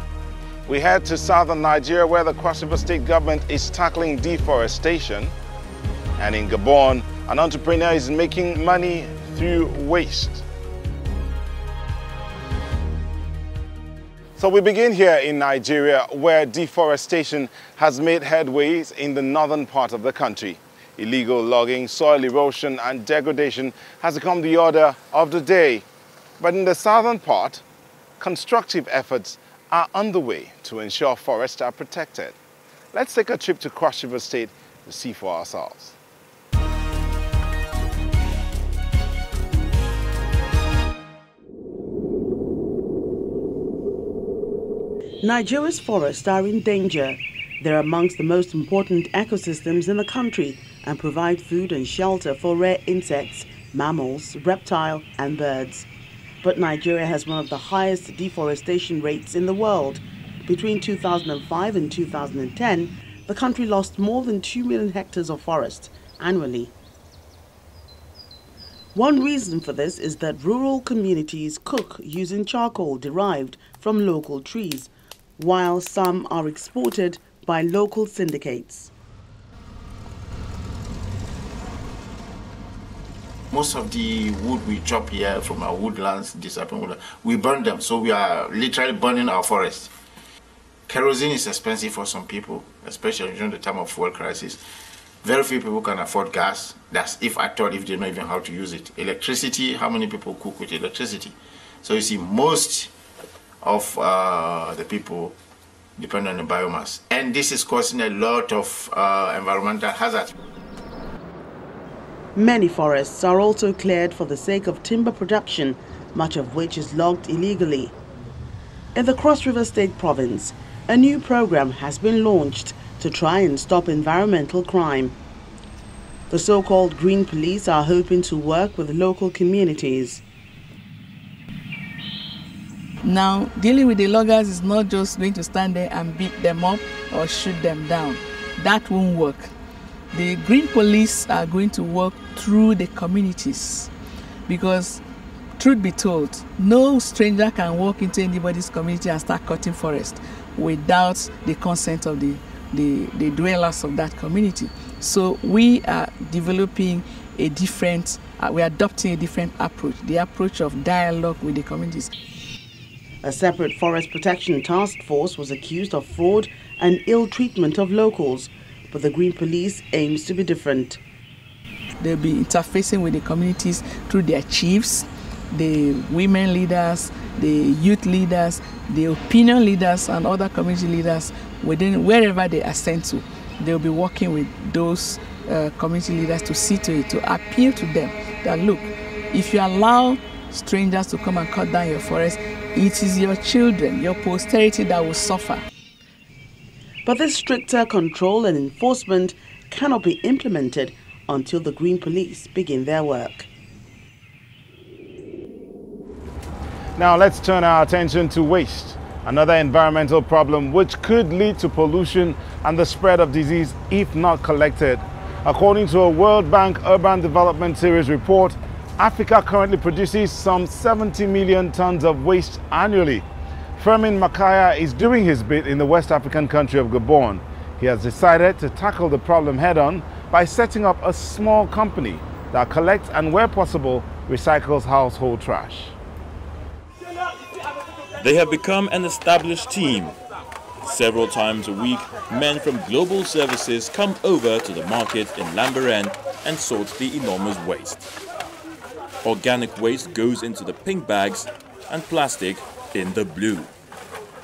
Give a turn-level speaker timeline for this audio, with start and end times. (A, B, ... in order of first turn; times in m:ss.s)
0:00.7-0:05.3 A
0:06.2-0:10.4 A
0:14.4-0:25.8 A
0:26.4-0:27.6 A
0:28.2-0:32.3 A
0:32.9-0:35.9 A
0:45.2-0:55.9 B
0:56.4-1:06.7 B
1:08.9-1:18.9 B
1:23.5-1:29.9 C
1:30.9-1:34.6 C
1:35.2-1:42.9 C
1:43.6-1:45.3 C
1:46.0-1:50.3 C
1:52.3-1:57.9 B
1:58.9-2:05.2 B
2:06.3-2:10.2 B
2:13.0-2:19.5 D
2:20.1-2:23.9 D
2:24.5-2:25.0 D
2:25.6-2:42.1 D
2:43.2-2:51.0 B
2:52.0-3:15.6 D
3:17.0-3:23.5 B
3:27.0-3:43.2 A
3:43.8-3:55.9 A
3:58.2-4:00.2 E
4:00.8-4:08.0 E
4:09.2-4:13.7 E